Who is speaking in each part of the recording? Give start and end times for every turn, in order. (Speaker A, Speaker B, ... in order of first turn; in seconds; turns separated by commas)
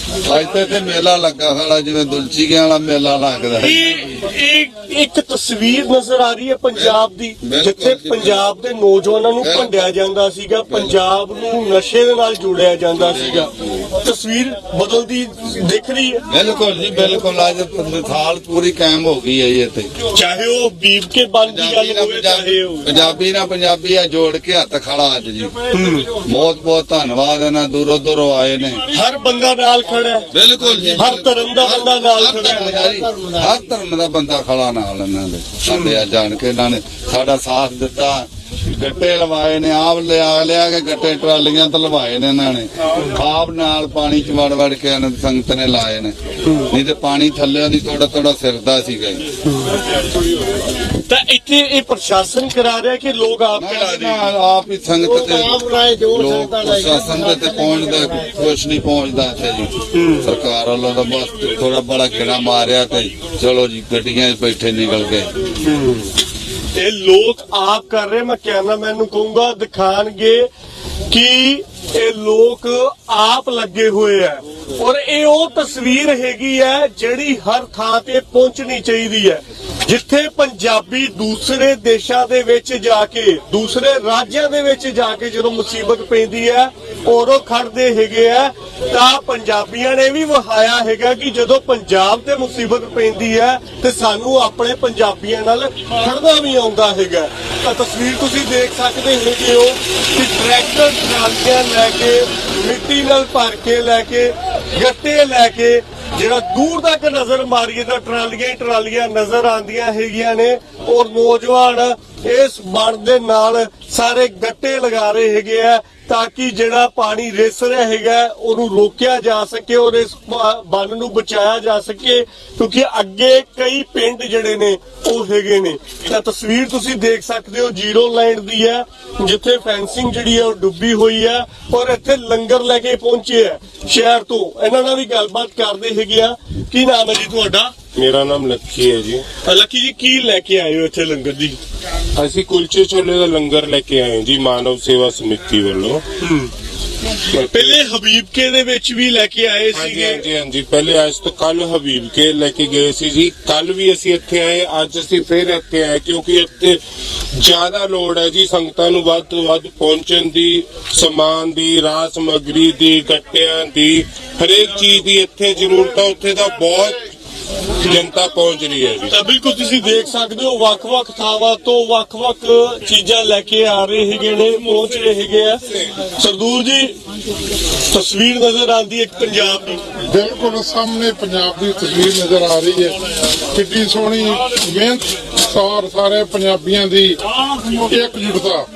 Speaker A: 0.2-3.9, Speaker B: 3.6-16.2, Speaker A: 6.8-8.4, Speaker A: 9.4-9.7, Speaker A: 13.1-13.5, Speaker A: 16.3-19.9, Speaker B: 20.1-23.0, Speaker A: 21.5-25.5, Speaker B: 25.7-26.2, Speaker A: 26.2-28.8, Speaker B: 28.9-30.3, Speaker A: 30.3-46.1, Speaker C: 30.6-31.0, Speaker B: 30.9-32.7, Speaker C: 32.4-33.5, Speaker B: 35.7-36.0, Speaker A: 46.7-49.3, Speaker B: 51.1-54.3, Speaker A: 53.6-55.6, Speaker C: 55.0-58.4, Speaker A: 56.1-65.3, Speaker B: 59.9-60.3, Speaker B: 65.6-66.1, Speaker B: 66.8-70.5, Speaker B: 71.1-137.7, Speaker D: 137.9-139.3, Speaker B: 139.4-141.6, Speaker D: 142.2-146.1, Speaker B: 146.2-146.5, Speaker D: 147.3-147.8, Speaker B: 147.5-150.2, Speaker D: 149.7-156.8, Speaker D: 157.3-167.1, Speaker D: 167.8-169.1, Speaker B: 169.1-177.0, Speaker B: 177.9-179.8, Speaker E: 180.0-183.0, Speaker E: 183.5-188.7